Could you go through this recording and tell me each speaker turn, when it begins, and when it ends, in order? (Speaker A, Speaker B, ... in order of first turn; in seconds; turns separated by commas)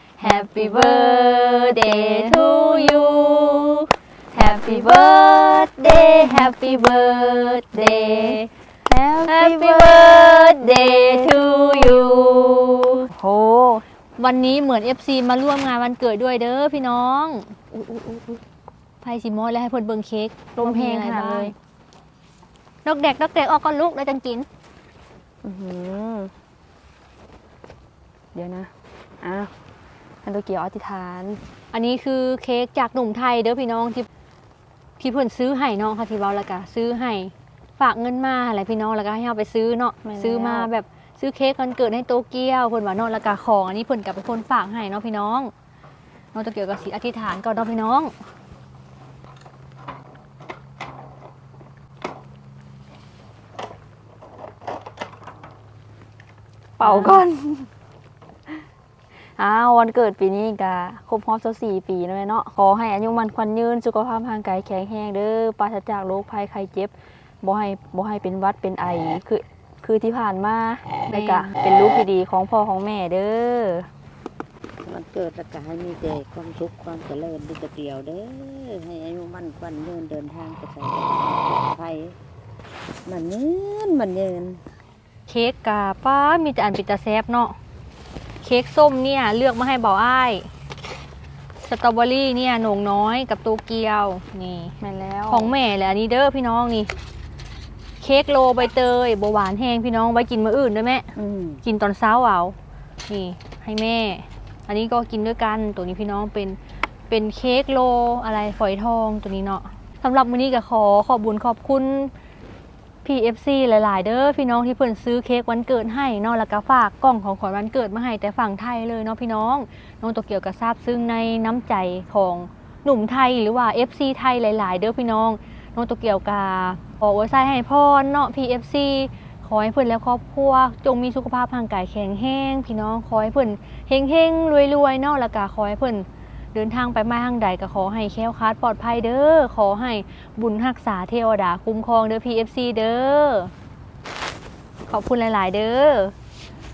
Speaker A: 0.2-8.5, Speaker B: 0.2-2.9, Speaker B: 4.3-11.9, Speaker A: 9.2-13.1, Speaker B: 13.1-13.8, Speaker A: 14.2-17.6, Speaker B: 17.7-18.4, Speaker A: 19.0-21.5, Speaker B: 20.6-21.5, Speaker A: 22.8-24.5, Speaker B: 25.4-26.3, Speaker B: 28.3-28.7, Speaker B: 29.2-29.5, Speaker B: 30.2-31.4, Speaker A: 31.7-34.1, Speaker A: 35.0-45.5, Speaker B: 40.0-40.7, Speaker A: 46.3-48.1, Speaker B: 56.8-57.7, Speaker A: 56.8-57.2, Speaker B: 59.2-73.9, Speaker A: 71.1-71.5, Speaker C: 74.8-82.2, Speaker C: 83.0-84.6, Speaker A: 85.3-87.5, Speaker A: 88.4-90.5, Speaker A: 91.7-94.7, Speaker B: 94.8-95.5, Speaker A: 95.3-96.9, Speaker A: 98.0-101.1, Speaker C: 101.2-101.6, Speaker A: 101.6-102.5, Speaker A: 103.1-106.6, Speaker A: 107.1-112.1, Speaker A: 113.0-143.5, Speaker A: 144.9-146.1